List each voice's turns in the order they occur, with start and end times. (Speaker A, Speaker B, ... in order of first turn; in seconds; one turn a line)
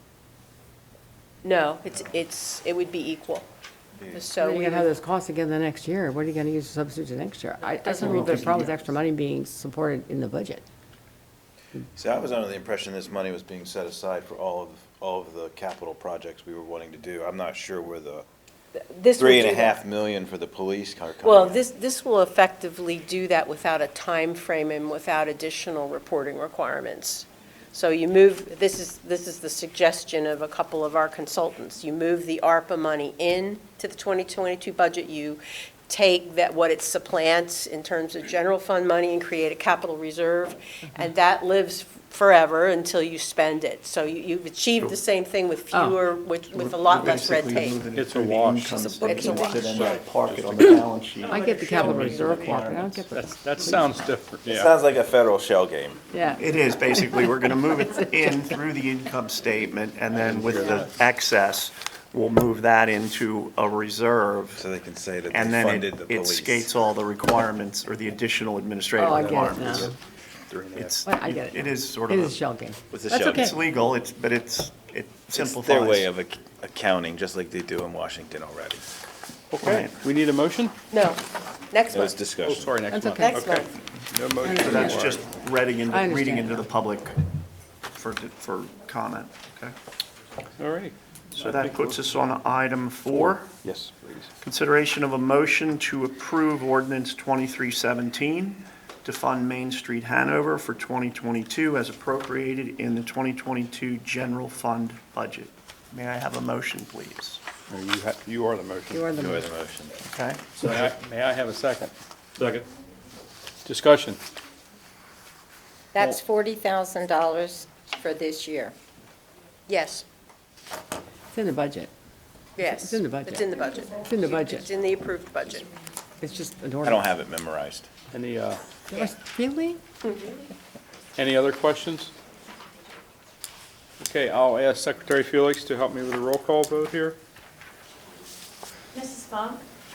Speaker A: 1.4-3.5
Speaker B: 4.0-4.3
Speaker A: 4.1-4.9
Speaker C: 4.5-10.6
Speaker A: 7.9-8.2
Speaker D: 8.0-8.9
Speaker B: 11.9-18.3
Speaker A: 18.8-19.8
Speaker B: 19.2-21.6
Speaker A: 21.2-47.8
Speaker C: 45.7-46.0
Speaker D: 46.5-52.9
Speaker E: 47.9-54.7
Speaker A: 48.8-50.0
Speaker C: 51.3-53.9
Speaker B: 54.5-56.0
Speaker C: 56.1-56.4
Speaker D: 56.4-64.7
Speaker C: 57.0-57.3
Speaker E: 60.2-60.8
Speaker B: 64.6-66.7
Speaker D: 65.3-70.0
Speaker C: 69.0-69.9
Speaker E: 69.1-70.0
Speaker E: 70.5-70.9
Speaker D: 70.8-72.4
Speaker C: 71.0-73.5
Speaker B: 72.9-73.5
Speaker D: 73.3-76.1
Speaker B: 75.3-78.8
Speaker E: 79.5-80.7
Speaker D: 79.6-80.0
Speaker A: 80.9-82.2
Speaker B: 81.9-82.9
Speaker E: 82.4-85.2
Speaker C: 82.9-83.3
Speaker A: 83.2-83.7
Speaker C: 84.4-85.0
Speaker D: 84.5-87.2
Speaker C: 85.9-86.7
Speaker D: 87.9-89.7
Speaker E: 90.6-92.0
Speaker D: 91.4-93.6
Speaker E: 93.1-94.3
Speaker D: 94.4-107.4
Speaker E: 107.7-109.1
Speaker C: 108.9-109.3
Speaker B: 109.1-110.0
Speaker D: 110.1-110.4
Speaker E: 110.6-112.7
Speaker E: 113.7-114.2
Speaker F: 116.0-118.7
Speaker A: 119.7-120.0
Speaker C: 121.3-121.9
Speaker A: 122.6-125.7
Speaker C: 122.6-124.7
Speaker C: 126.2-127.0
Speaker B: 126.8-127.9
Speaker E: 128.1-128.6
Speaker C: 128.9-129.8
Speaker A: 130.0-130.4
Speaker E: 131.2-132.1
Speaker E: 134.0-137.2
Speaker F: 139.0-139.6